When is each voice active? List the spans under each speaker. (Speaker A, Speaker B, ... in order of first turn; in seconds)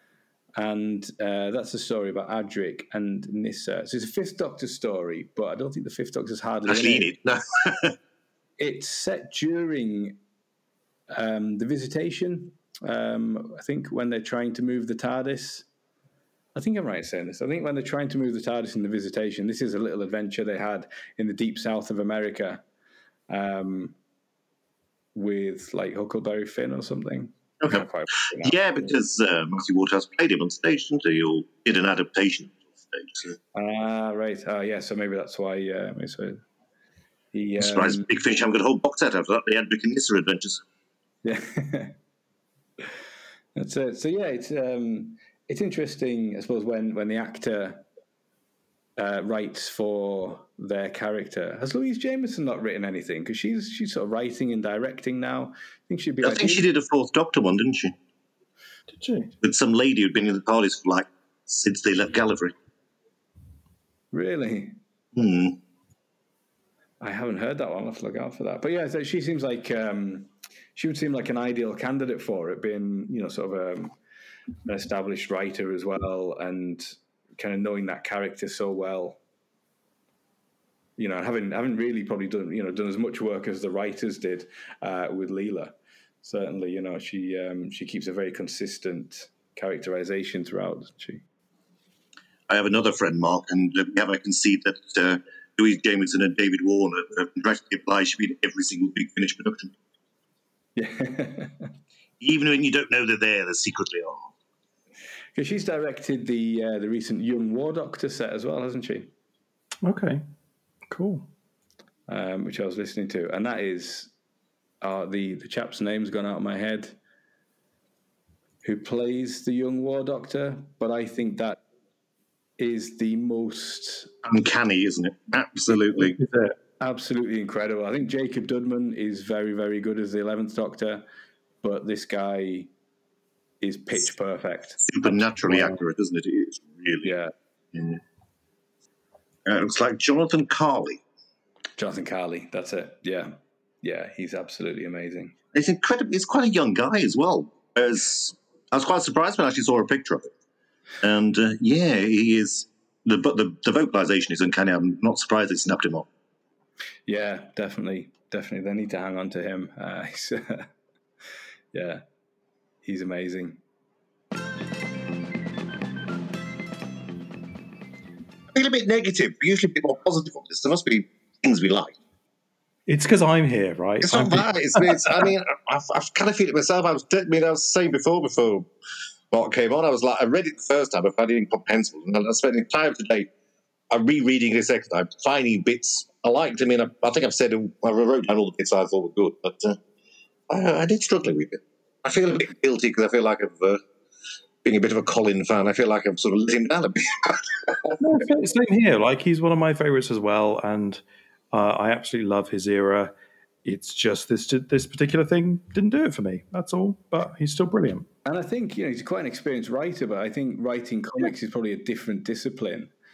Speaker A: 0.6-7.1, 8.6-10.2, 11.1-15.7, 16.5-22.6, 23.3-23.9, 25.1-28.6, 33.5-36.4, 37.3-38.0, 41.2-42.0, 43.5-47.8, 49.0-56.7, 64.1-64.8, 67.0-73.9, 74.7-79.2, 81.0-91.2, 100.8-101.7, 105.3-109.1, 112.1-114.1, 114.8-117.0, 118.6-121.6, 122.6-124.1, 126.8-131.0, 131.6-132.7, 133.6-135.7, 137.0-137.3, 141.8-145.3, 157.1-160.7, 161.7-162.0, 162.8-163.6, 208.2-212.9
Speaker B: 6.7-7.9, 28.4-33.4, 37.6-40.6, 56.2-57.9, 59.4-62.5, 65.1-65.5, 92.5-99.7, 102.2-104.3, 124.2-126.2, 134.8-137.2, 137.7-138.0, 139.4-141.0, 145.5-150.3, 151.0-156.1, 168.5-171.9, 174.0-178.7, 179.3-183.3, 183.9-189.8, 190.5-193.8, 194.6-198.0
Speaker C: 58.9-59.3, 109.8-110.2, 110.9-111.3, 125.7-126.5, 172.9-175.3, 198.0-203.1, 203.6-208.1